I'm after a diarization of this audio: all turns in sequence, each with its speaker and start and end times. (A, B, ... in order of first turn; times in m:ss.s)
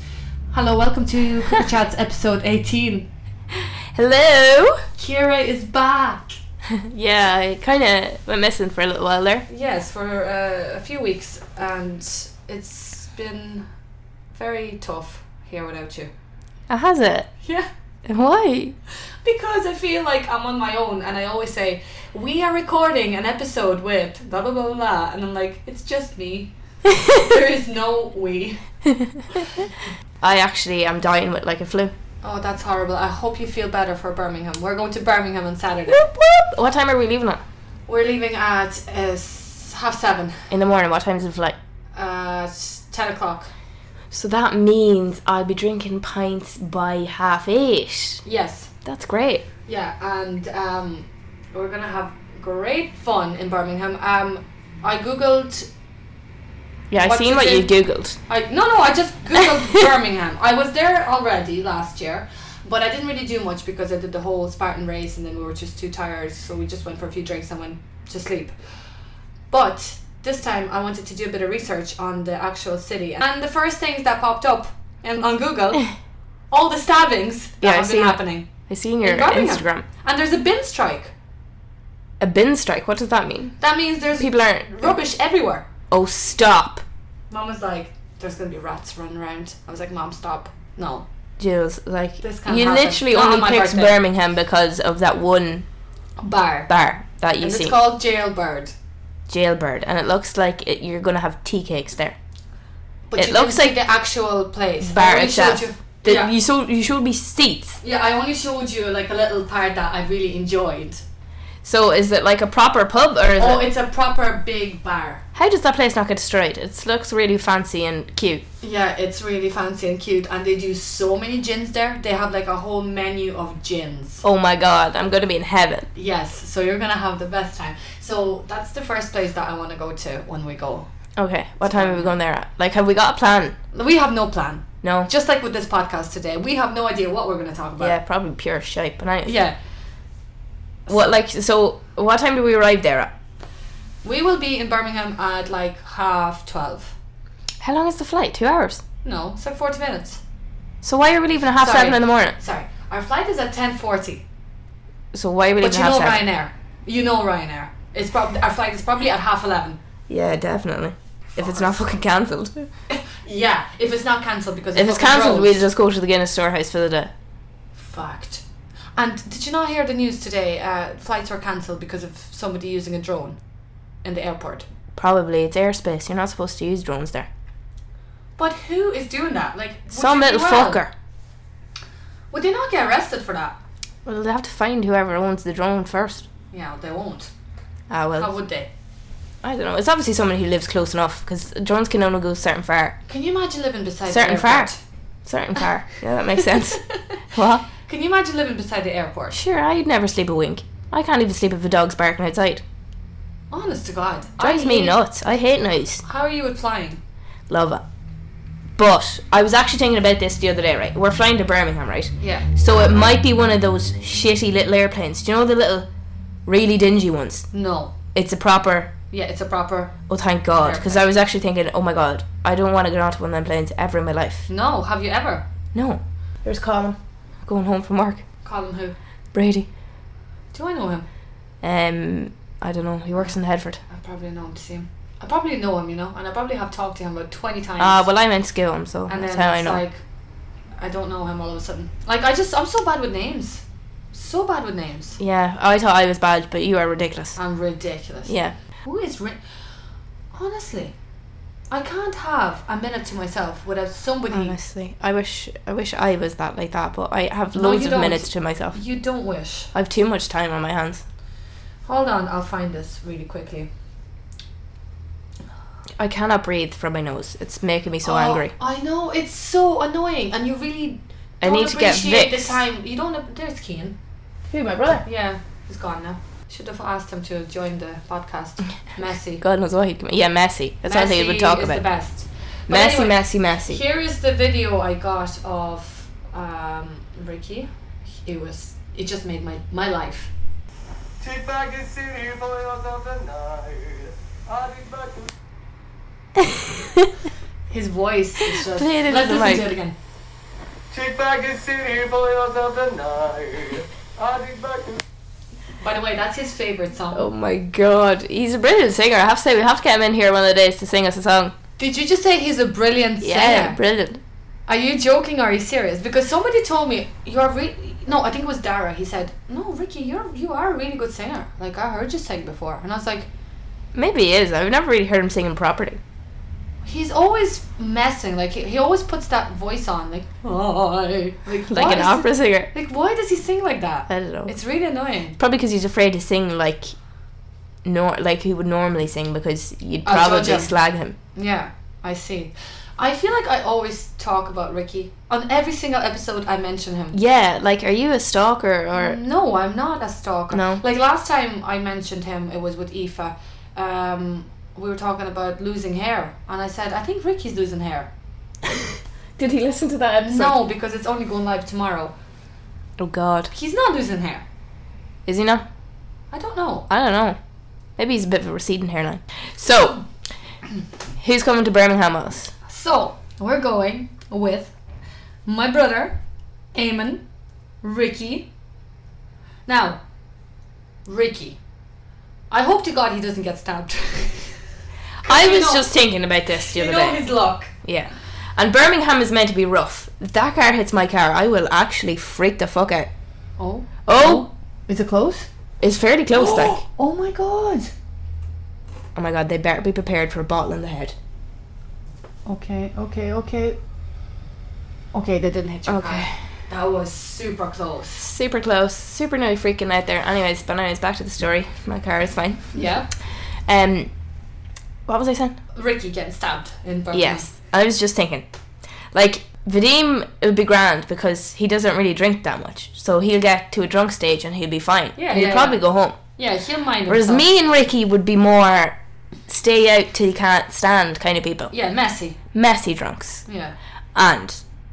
0:00.5-0:03.1 A
0:03.5-0:04.8 B
0:05.0-0:06.4 A
0:06.7-0:09.4 B
0:09.5-0:13.7 A
0:14.4-0:16.1 A
0:16.7-0:17.3 B
0:17.4-0:17.7 A
0:18.1-0:18.8 B
0:19.2-0:28.6 A
0:26.9-0:27.3 B
0:29.3-0:29.7 A
0:30.2-0:31.9 B
0:32.2-0:36.0 A
0:35.9-0:37.4 B
0:37.9-0:40.5 A
0:40.5-0:41.6 B
0:42.0-0:43.5 A
0:44.1-0:48.2 B
0:48.2-0:48.7 A
0:48.8-0:49.5 B
0:49.7-0:55.7 A
0:56.9-0:58.2 B
0:57.0-0:57.7 A
0:58.3-1:08.6 A
1:09.5-1:15.9 A
1:16.5-1:18.5 A
1:17.6-1:19.9 B
1:19.0-1:21.1 A
1:22.2-1:23.6 B
1:23.6-1:25.7 A
1:24.2-1:25.0 B
1:25.9-1:26.8 B
1:27.3-1:31.1 A
1:31.4-1:35.7 B
1:32.2-1:34.0 A
1:36.2-1:36.7 A
1:36.7-1:37.8 B
1:37.4-1:38.7 A
1:39.3-1:42.2 B
1:43.1-1:46.3 A
1:43.2-1:43.8 B
1:44.8-1:47.8 B
1:47.8-1:51.0 A
1:51.6-1:53.6 B
1:53.4-1:55.2 A
1:55.4-1:58.4 B
1:58.6-2:04.2 A
2:04.2-2:05.9 B
2:06.0-2:10.9 A
2:11.2-2:13.6 B
2:11.6-2:12.2 A
2:13.7-2:18.0 A
2:14.8-2:15.1 B
2:17.8-2:19.4 B
2:19.2-2:19.6 A
2:20.9-2:21.2 A
2:20.9-2:23.1 B
2:24.0-2:27.0 A
2:27.6-2:28.8 B
2:29.0-2:30.2 A
2:30.8-2:32.4 B
2:31.6-2:34.2 A
2:35.1-2:36.3 B
2:35.6-2:39.8 A
2:40.1-2:42.7 B
2:41.4-2:41.8 A
2:42.9-2:45.6 A
2:44.8-2:47.1 B
2:47.8-2:48.4 A
2:49.0-2:53.4 A
2:54.0-2:54.7 A
2:55.0-2:57.3 B
2:58.4-3:00.8 A
2:59.9-3:00.9 B
3:02.3-3:03.6 A
3:04.1-3:06.3 B
3:06.5-3:07.3 A
3:07.9-3:08.3 B
3:08.2-3:08.7 A
3:09.4-3:13.0 B
3:13.1-3:14.8 A
3:14.1-3:14.7 B
3:15.2-3:17.7 B
3:16.3-3:19.4 A
3:19.3-3:22.6 B
3:23.5-3:25.0 A
3:24.4-3:26.0 B
3:26.0-3:27.0 A
3:27.5-3:27.8 B
3:28.8-3:35.9 B
3:32.2-3:32.5 A
3:36.5-3:37.5 B
3:37.5-3:37.9 A
3:38.2-3:38.9 B
3:39.1-3:40.0 A
3:40.1-3:44.5 B
3:40.6-3:41.1 A
3:44.5-3:45.4 A
3:45.7-3:48.2 B
3:48.4-3:49.0 A
3:49.3-3:49.7 B
3:50.5-3:51.1 A
3:51.6-3:53.8 B
3:53.9-3:58.1 A
3:57.8-3:59.8 B
3:59.1-4:00.0 A
4:00.8-4:05.2 A
4:05.2-4:07.4 B
4:07.4-4:09.4 A
4:08.3-4:08.6 B
4:10.3-4:10.9 A
4:11.7-4:14.6 A
4:14.3-4:18.8 B
4:17.5-4:19.7 A
4:19.7-4:21.0 B
4:21.8-4:23.7 A
4:26.0-4:28.5 B
4:28.0-4:34.0 A
4:31.4-4:32.6 B
4:34.5-4:35.0 B
4:35.0-4:39.4 A
4:39.4-4:41.8 B
4:40.8-4:50.3 A
4:42.7-4:43.8 B
4:51.2-4:55.3 C
4:56.4-4:57.1 B
4:57.7-5:00.0 A
4:58.4-4:59.7 B
5:00.9-5:05.0 C
5:05.8-5:07.3 A
5:07.1-5:11.6 B
5:11.8-5:13.8 A
5:13.2-5:14.2 B
5:14.7-5:23.3 A
5:23.9-5:26.0 B
5:26.8-5:35.4 A
5:31.7-5:32.7 B
5:34.1-5:34.5 B
5:35.4-5:37.0 B
5:37.8-5:41.2 B
5:40.0-5:40.7 A
5:41.3-5:47.2 A
5:47.1-5:49.2 B
5:48.9-5:58.1 A
5:50.5-5:50.8 B
5:58.7-6:00.6 B
6:00.2-6:02.1 A
6:03.0-6:03.5 B
6:03.5-6:04.4 A
6:05.3-6:05.7 B
6:06.3-6:06.9 A
6:06.9-6:07.4 B
6:08.0-6:10.0 B
6:11.2-6:12.5 B
6:12.7-6:14.7 A
6:15.5-6:16.2 A
6:16.7-6:17.2 A
6:17.8-6:18.5 A
6:19.7-6:20.0 A
6:21.1-6:21.6 A
6:22.5-6:24.6 A
6:25.2-6:25.9 A
6:25.2-6:27.2 B
6:26.6-6:27.7 A
6:27.8-6:33.1 B
6:33.6-6:35.5 A
6:34.1-6:34.5 B
6:35.8-6:36.8 B
6:36.3-6:37.9 A
6:39.2-6:41.2 B
6:42.5-6:43.8 A
6:45.1-6:48.3 A
6:45.9-6:46.4 B
6:48.2-6:52.8 B
6:52.7-6:53.1 A
6:53.7-6:54.1 B
6:55.1-6:55.6 B
6:55.7-6:57.5 A
6:57.1-6:58.4 B
6:59.1-7:06.2 B
7:05.2-7:07.5 A
7:07.1-7:11.7 B
7:11.7-7:12.4 A
7:12.5-7:13.4 B
7:13.5-7:13.8 A
7:14.2-7:14.6 B